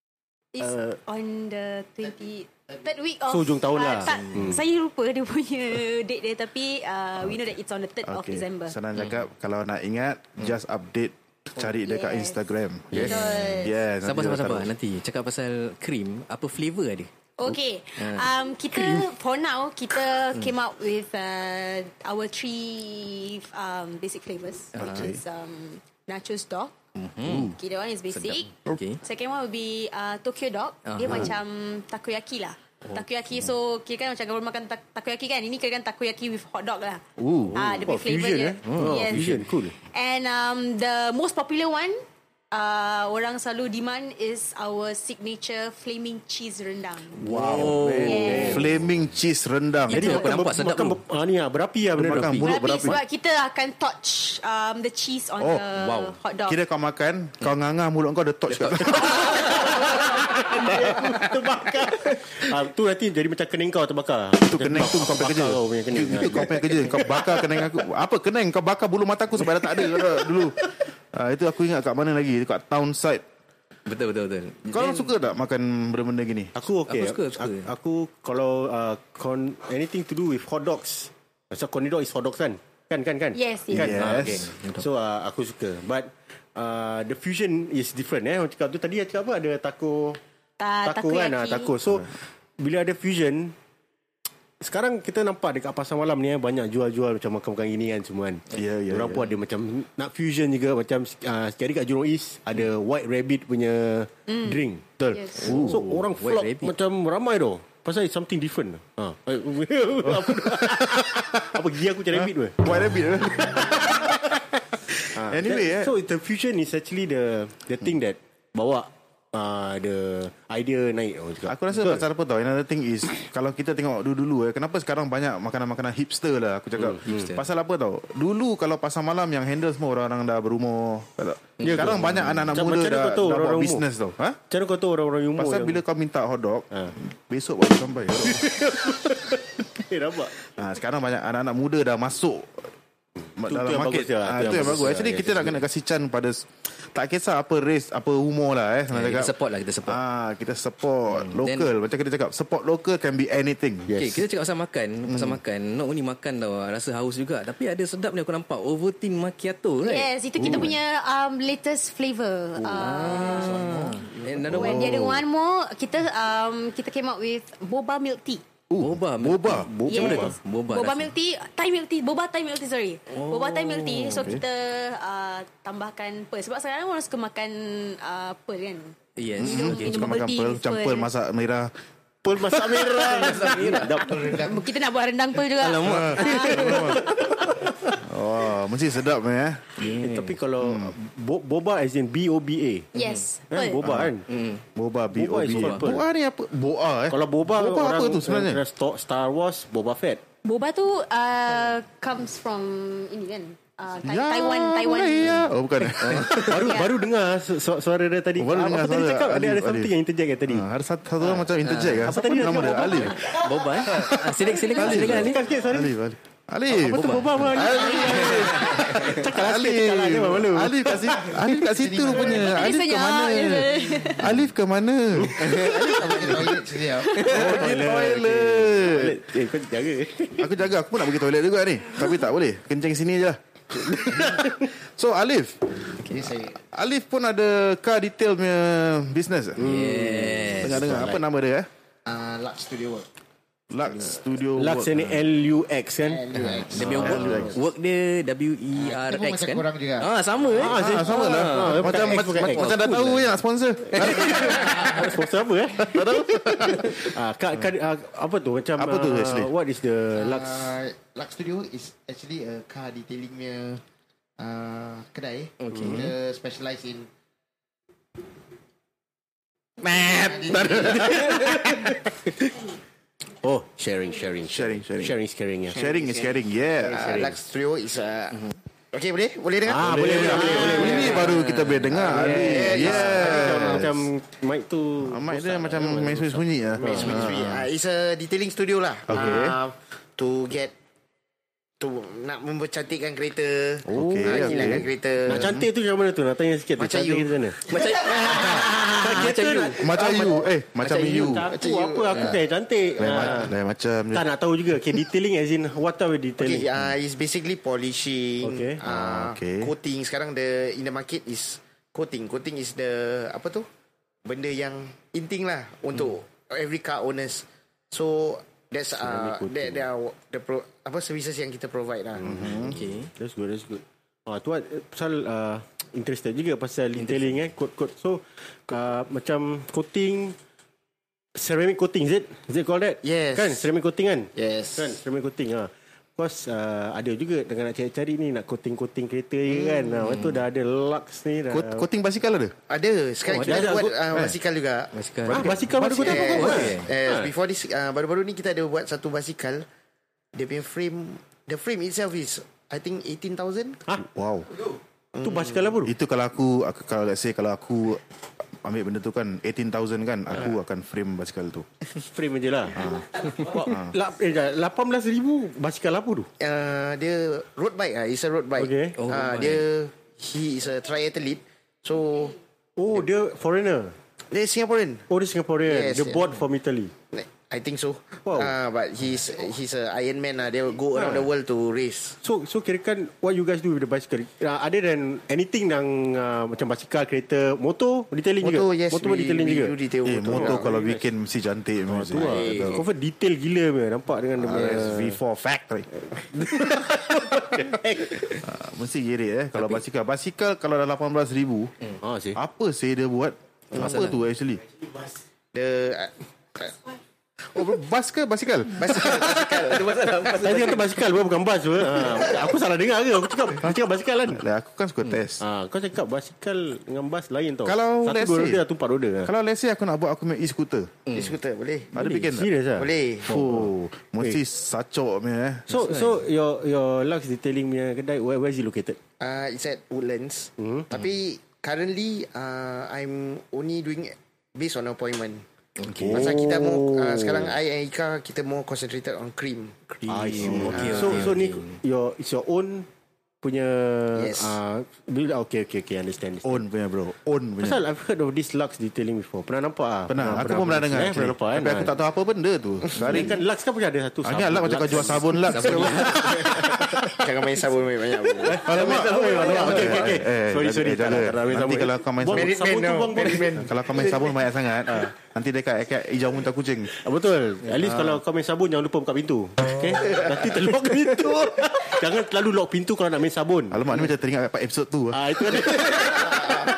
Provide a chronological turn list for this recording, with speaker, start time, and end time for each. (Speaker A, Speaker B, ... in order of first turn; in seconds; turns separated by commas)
Speaker A: 0.6-8.8, Speaker B: 0.6-1.0, Speaker B: 3.3-4.6, Speaker C: 4.1-4.5, Speaker D: 8.1-14.7, Speaker A: 11.6-12.4, Speaker A: 13.0-13.7, Speaker C: 14.0-17.1, Speaker A: 17.4-26.7, Speaker C: 18.0-18.3, Speaker B: 18.8-19.1, Speaker C: 24.8-25.1, Speaker D: 24.8-25.2, Speaker C: 27.0-27.6, Speaker D: 27.2-27.6, Speaker A: 27.5-37.0, Speaker C: 28.1-29.0, Speaker C: 30.9-31.3, Speaker D: 37.2-37.6, Speaker B: 37.5-39.8, Speaker A: 37.5-47.3, Speaker C: 38.7-39.2, Speaker C: 47.2-48.7, Speaker D: 47.2-50.2, Speaker B: 47.3-48.6, Speaker A: 47.9-48.6, Speaker C: 49.9-51.0, Speaker B: 49.9-52.4, Speaker D: 52.0-53.0, Speaker C: 52.0-52.5, Speaker A: 52.4-56.6, Speaker C: 55.8-56.2, Speaker D: 56.5-60.1, Speaker C: 58.5-59.5, Speaker B: 59.2-67.7, Speaker D: 60.9-61.5, Speaker D: 64.4-70.6, Speaker B: 69.5-70.3, Speaker D: 71.1-73.2, Speaker C: 73.9-75.2, Speaker D: 74.7-76.5, Speaker B: 76.6-90.2, Speaker C: 76.9-77.7, Speaker A: 83.3-83.9, Speaker D: 83.7-84.6, Speaker A: 90.6-91.7, Speaker B: 90.8-93.5, Speaker B: 94.6-112.7, Speaker D: 98.5-99.2, Speaker A: 104.3-105.6, Speaker D: 105.4-106.0, Speaker C: 105.7-106.7, Speaker D: 110.1-111.6, Speaker D: 112.2-114.4, Speaker B: 113.8-114.1, Speaker D: 115.1-115.9, Speaker B: 115.1-122.0, Speaker D: 121.5-134.4, Speaker B: 126.8-127.3, Speaker C: 127.1-127.4, Speaker C: 131.6-132.6, Speaker B: 131.6-133.8, Speaker B: 134.5-135.8, Speaker D: 135.4-138.9, Speaker B: 138.2-140.3, Speaker D: 140.6-142.7, Speaker D: 143.4-149.3, Speaker B: 143.4-145.6, Speaker C: 148.9-150.0, Speaker D: 149.8-153.9, Speaker C: 151.1-151.7, Speaker B: 153.9-154.2, Speaker C: 153.9-160.7, Speaker D: 155.1-155.4, Speaker A: 159.8-163.7, Speaker D: 160.4-160.7, Speaker C: 162.8-165.0, Speaker E: 162.8-164.4, Speaker D: 164.4-165.2, Speaker A: 164.5-168.4, Speaker D: 168.7-169.7, Speaker C: 168.8-171.1, Speaker B: 169.5-170.4, Speaker A: 169.9-181.1, Speaker C: 173.1-174.3, Speaker D: 174.1-174.4, Speaker C: 179.2-180.1, Speaker D: 179.4-181.7, Speaker B: 182.2-184.4, Speaker C: 182.8-183.9, Speaker E: 183.6-184.6, Speaker A: 184.2-186.8, Speaker C: 185.6-187.1, Speaker D: 185.8-187.1, Speaker B: 186.6-187.1, Speaker D: 187.9-189.9, Speaker C: 189.8-190.4, Speaker B: 190.0-192.9, Speaker D: 190.6-190.9, Speaker A: 192.9-193.8, Speaker B: 193.5-194.3, Speaker D: 193.8-194.1, Speaker C: 194.3-194.6, Speaker D: 194.8-198.6, Speaker B: 195.1-196.1, Speaker C: 195.5-196.0, Speaker B: 197.1-200.2, Speaker A: 200.4-205.4, Speaker D: 204.0-206.6, Speaker C: 206.0-206.5, Speaker B: 206.1-210.7, Speaker A: 206.3-206.9, Speaker D: 208.4-209.9, Speaker D: 210.5-225.5, Speaker C: 211.6-215.4, Speaker B: 212.0-213.5, Speaker B: 214.6-215.9, Speaker B: 216.7-221.6, Speaker C: 216.9-219.1, Speaker E: 217.8-218.5, Speaker E: 221.6-222.6, Speaker A: 222.4-224.3, Speaker B: 225.2-226.6, Speaker C: 225.4-227.6, Speaker E: 225.5-227.4, Speaker B: 227.2-230.5, Speaker D: 227.2-229.2, Speaker D: 230.4-235.7, Speaker E: 236.0-236.6, Speaker D: 236.6-241.7, Speaker B: 239.6-240.5, Speaker C: 239.6-240.8, Speaker E: 240.6-241.2, Speaker E: 242.1-243.1, Speaker D: 243.7-245.1, Speaker B: 244.5-246.2, Speaker E: 246.0-247.6, Speaker C: 246.5-252.9, Speaker D: 246.7-247.6, Speaker E: 248.7-250.1, Speaker B: 250.5-253.0, Speaker D: 250.6-255.1, Speaker B: 253.9-260.7, Speaker C: 253.9-255.1, Speaker D: 255.8-257.2, Speaker D: 258.8-259.5, Speaker E: 260.1-263.8, Speaker E: 264.4-267.1, Speaker C: 265.6-266.1, Speaker B: 265.7-266.1, Speaker D: 269.8-271.9, Speaker E: 270.0-271.5, Speaker B: 270.9-271.8, Speaker B: 273.4-275.8, Speaker D: 274.5-275.1, Speaker E: 275.7-281.3, Speaker D: 275.7-277.1, Speaker B: 276.9-277.4, Speaker B: 279.6-281.3, Speaker D: 279.9-284.1, Speaker C: 280.8-282.0, Speaker E: 281.9-283.9, Speaker B: 282.1-287.3, Speaker D: 285.0-287.7, Speaker E: 286.8-290.7, Speaker D: 289.1-289.6, Speaker E: 291.8-295.6, Speaker D: 293.9-295.7, Speaker B: 294.0-297.6, Speaker E: 296.8-297.4, Speaker C: 297.7-299.9, Speaker B: 298.2-303.5, Speaker D: 299.8-301.5, Speaker E: 301.2-302.4, Speaker D: 303.0-304.2, Speaker B: 304.1-306.7, Speaker E: 306.4-313.7, Speaker B: 308.4-308.8, Speaker D: 308.8-309.7, Speaker E: 314.2-322.8, Speaker B: 319.0-319.9, Speaker D: 322.2-322.8, Speaker B: 322.2-330.4, Speaker C: 322.6-323.1, Speaker B: 331.4-341.9, Speaker E: 333.0-333.7, Speaker E: 334.4-335.0, Speaker E: 339.5-340.0, Speaker C: 340.0-340.4, Speaker D: 341.5-342.5, Speaker E: 342.7-345.4, Speaker C: 343.3-343.7, Speaker B: 343.3-344.0, Speaker C: 344.9-346.9, Speaker B: 345.3-347.3, Speaker D: 345.4-346.4, Speaker E: 345.9-349.6, Speaker E: 350.3-353.8, Speaker D: 354.0-354.5, Speaker E: 355.1-355.7, Speaker B: 355.2-355.9, Speaker D: 355.8-358.0, Speaker D: 358.6-361.8, Speaker B: 362.0-366.3, Speaker D: 362.8-363.0, Speaker D: 363.6-363.9, Speaker E: 366.4-372.4, Speaker B: 368.6-369.0, Speaker C: 369.0-369.6, Speaker B: 372.8-373.9, Speaker E: 374.3-375.1, Speaker B: 375.1-376.9, Speaker E: 375.6-376.3, Speaker E: 377.1-382.2, Speaker B: 378.2-378.6, Speaker B: 380.9-381.3, Speaker B: 382.2-389.8, Speaker E: 388.4-390.6, Speaker D: 390.0-392.8, Speaker B: 390.3-391.0, Speaker B: 391.9-395.2, Speaker E: 392.1-392.9, Speaker D: 394.4-395.9, Speaker B: 396.1-398.4, Speaker D: 398.4-401.7, Speaker B: 402.0-402.4, Speaker D: 402.4-404.6, Speaker C: 403.8-404.2, Speaker E: 403.8-404.1, Speaker E: 405.5-406.8, Speaker D: 407.5-409.1, Speaker E: 408.8-410.4, Speaker C: 409.1-411.0, Speaker B: 410.4-414.4, Speaker D: 414.3-415.4, Speaker B: 415.4-419.3, Speaker D: 417.6-418.6, Speaker D: 419.2-421.0, Speaker C: 421.1-421.4, Speaker E: 421.1-422.0, Speaker D: 421.9-422.5, Speaker B: 422.0-422.9, Speaker E: 422.8-423.5, Speaker D: 423.2-425.8, Speaker B: 425.7-429.0, Speaker C: 425.7-426.2, Speaker E: 429.2-435.4, Speaker B: 430.6-430.9, Speaker C: 435.8-436.1, Speaker D: 435.9-436.4, Speaker B: 436.1-437.6, Speaker E: 436.1-439.9, Speaker B: 440.0-442.9, Speaker C: 440.1-441.8, Speaker D: 440.3-441.3, Speaker E: 440.7-441.2, Speaker B: 443.4-446.6, Speaker E: 444.1-444.6, Speaker D: 446.4-447.8, Speaker B: 447.6-451.9, Speaker D: 450.1-453.4, Speaker B: 452.9-456.9, Speaker D: 454.2-457.1, Speaker C: 455.5-456.8, Speaker E: 457.0-458.7, Speaker B: 458.4-464.1, Speaker D: 458.5-462.6, Speaker E: 462.3-463.7, Speaker D: 463.5-466.9, Speaker B: 464.9-465.1, Speaker B: 466.9-474.1, Speaker D: 467.8-468.2, Speaker D: 473.7-476.0, Speaker B: 475.1-476.5